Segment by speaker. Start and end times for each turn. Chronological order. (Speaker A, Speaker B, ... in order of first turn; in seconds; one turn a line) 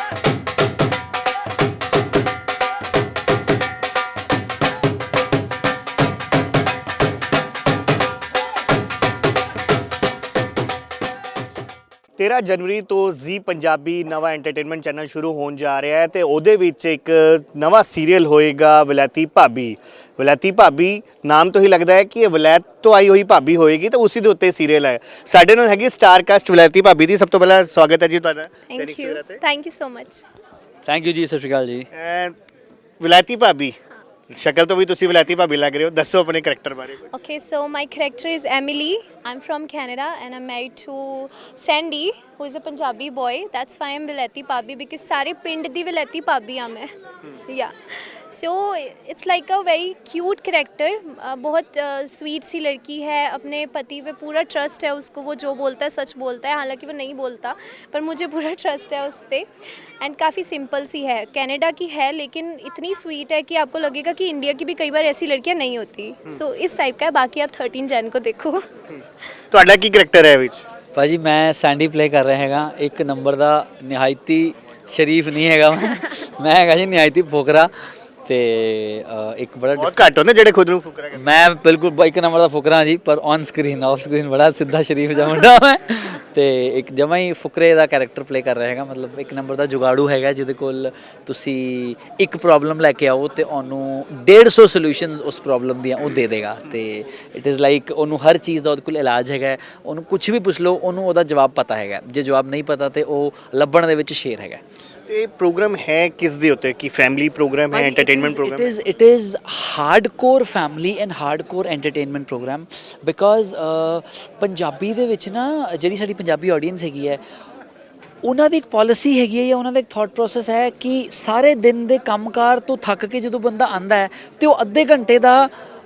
Speaker A: 12.2-29.4
Speaker B: 28.7-30.2
Speaker C: 30.8-31.9
Speaker A: 31.9-32.3
Speaker A: 33.0-33.8
Speaker A: 34.3-37.1
Speaker B: 37.1-59.5
Speaker B: 60.0-68.6
Speaker A: 69.5-70.6
Speaker C: 70.9-77.7
Speaker C: 78.2-80.1
Speaker A: 79.8-81.3
Speaker C: 81.2-104.6
Speaker A: 105.1-108.7
Speaker C: 107.7-117.2
Speaker C: 118.2-125.5